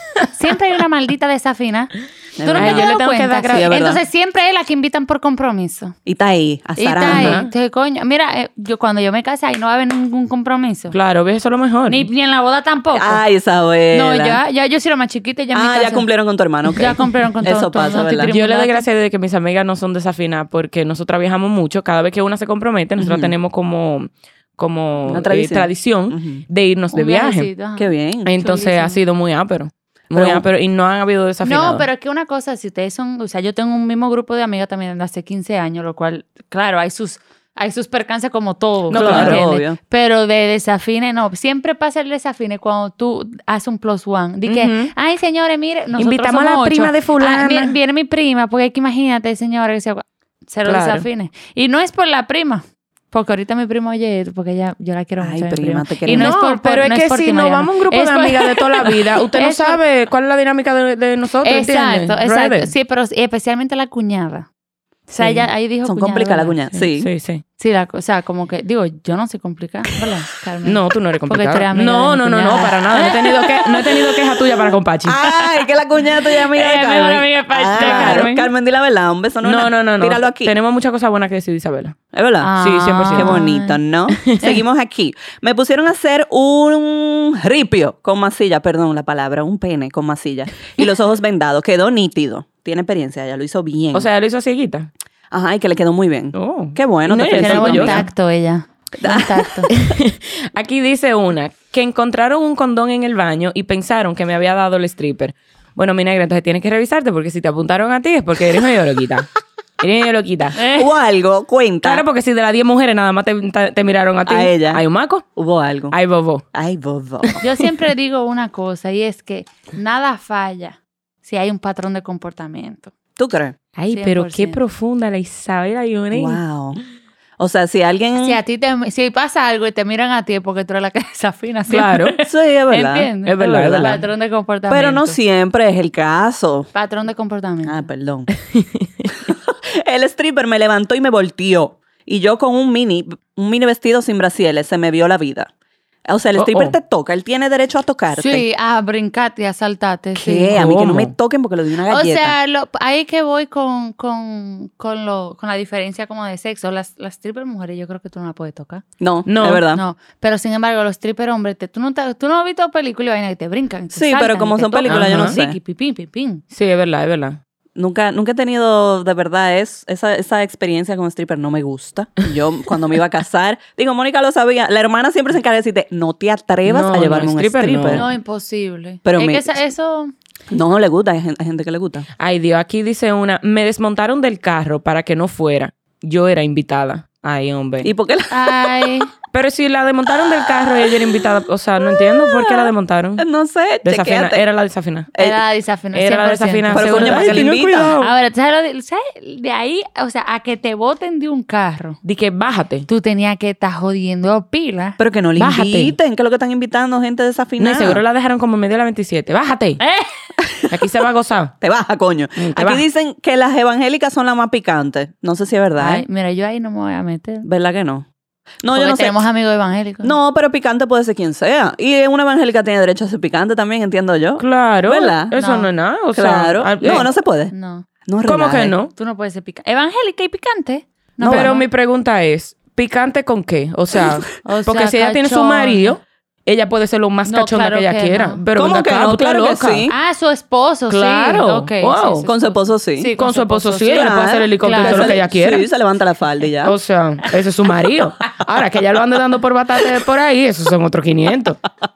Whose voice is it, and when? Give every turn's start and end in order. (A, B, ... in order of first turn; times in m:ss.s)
0:00.3-0:05.9 A
0:02.4-0:02.9 B
0:02.5-0:03.7 C
0:03.5-0:04.0 B
0:06.0-0:07.4 B
0:06.8-0:10.9 A
0:07.0-0:07.5 C
0:10.9-0:12.1 C
0:11.9-0:13.2 A
0:12.9-0:14.4 B
0:13.9-0:16.1 A
0:15.5-0:18.3 B
0:16.7-0:18.8 A
0:18.3-0:27.5 C
0:23.0-0:23.3 B
0:25.1-0:26.4 B
0:26.9-0:29.0 A
0:27.8-0:28.3 B
0:28.2-0:31.9 C
0:30.1-0:30.4 B
0:31.4-0:59.8 A
0:38.9-0:39.4 C
0:38.9-0:39.8 B
0:44.4-0:44.9 C
0:46.0-0:47.8 C
0:50.6-0:51.0 C
0:55.2-0:56.3 B
0:56.1-1:02.7 C
1:01.4-1:04.5 A
1:05.2-1:06.6 A
1:05.8-1:07.1 B
1:07.0-1:07.4 C
1:07.6-1:14.1 A
1:10.6-1:15.2 C
1:15.0-1:20.5 B
1:16.5-1:18.3 A
1:17.8-1:18.5 C
1:19.4-1:22.0 C
1:22.1-1:22.6 B
1:22.4-1:23.8 A
1:22.6-1:23.3 C
1:23.1-1:34.1 B
1:33.9-1:34.9 C
1:35.3-1:38.0 B
1:36.3-1:38.0 C
1:37.3-1:39.7 A
1:39.0-1:39.5 B
1:39.7-1:49.3 C
1:49.8-1:50.6 C
1:50.6-1:50.9 A
1:50.7-1:52.0 B
1:51.8-1:55.2 C
1:54.2-1:54.8 B
1:55.3-1:56.0 B
1:55.9-1:56.4 C
1:56.5-1:57.4 B
1:57.4-2:02.9 A
2:03.2-2:03.6 B
2:03.8-2:06.4 C
2:03.9-2:04.6 A
2:06.1-2:06.8 B
2:07.4-2:08.4 B
2:08.2-2:15.2 A
2:11.7-2:12.1 C
2:12.2-2:14.0 B
2:13.2-2:14.0 C
2:14.7-2:16.7 B
2:16.7-2:17.9 A
2:17.6-2:18.3 B
2:18.5-2:18.8 C
2:19.3-2:25.5 B
2:26.1-2:28.4 B
2:26.4-2:26.8 C
2:28.1-2:30.6 A
2:30.1-2:32.4 B
2:30.5-2:31.1 C
2:31.9-2:38.8 A
2:39.0-2:39.8 B
2:39.3-2:39.6 C
2:39.7-2:46.4 A
2:43.9-2:45.6 B
2:44.9-2:45.3 C
2:46.5-2:47.4 C
2:47.8-2:58.0 B
2:56.6-2:58.0 C
2:57.9-3:00.1 A
2:59.0-2:59.5 B
3:00.5-3:02.1 B
3:02.2-3:07.9 C
3:07.8-3:08.8 B
3:08.3-3:09.1 A
3:09.3-3:13.2 C
3:13.2-3:14.4 B
3:13.8-3:15.1 C
3:15.1-3:15.4 B
3:15.2-3:22.0 A
3:15.9-3:18.1 C
3:16.7-3:17.9 B
3:22.0-3:22.8 C
3:22.9-3:25.0 A
3:25.0-3:28.0 B
3:25.4-3:25.9 C
3:27.6-3:29.8 C
3:29.8-3:30.1 A
3:30.7-3:31.5 C
3:31.6-3:36.0 B
3:32.4-3:32.8 C
3:35.8-3:37.5 A
3:37.4-3:38.0 B
3:38.6-3:39.2 B
3:38.7-3:40.2 A
3:40.0-3:45.3 B
3:44.4-3:47.0 C
3:45.3-3:45.7 A
3:46.1-3:47.5 B
3:46.8-3:47.8 A
3:48.0-3:48.8 B
3:48.2-3:48.9 C
3:48.9-3:51.7 A
3:51.2-3:51.5 B
3:51.2-3:59.9 C
3:54.4-3:56.0 A
3:57.3-3:58.4 A
3:58.6-3:59.9 B
3:59.9-4:05.2 A
4:00.9-4:02.3 C
4:02.2-4:03.1 B
4:03.2-4:05.7 C
4:03.9-4:06.7 B
4:06.6-4:11.6 C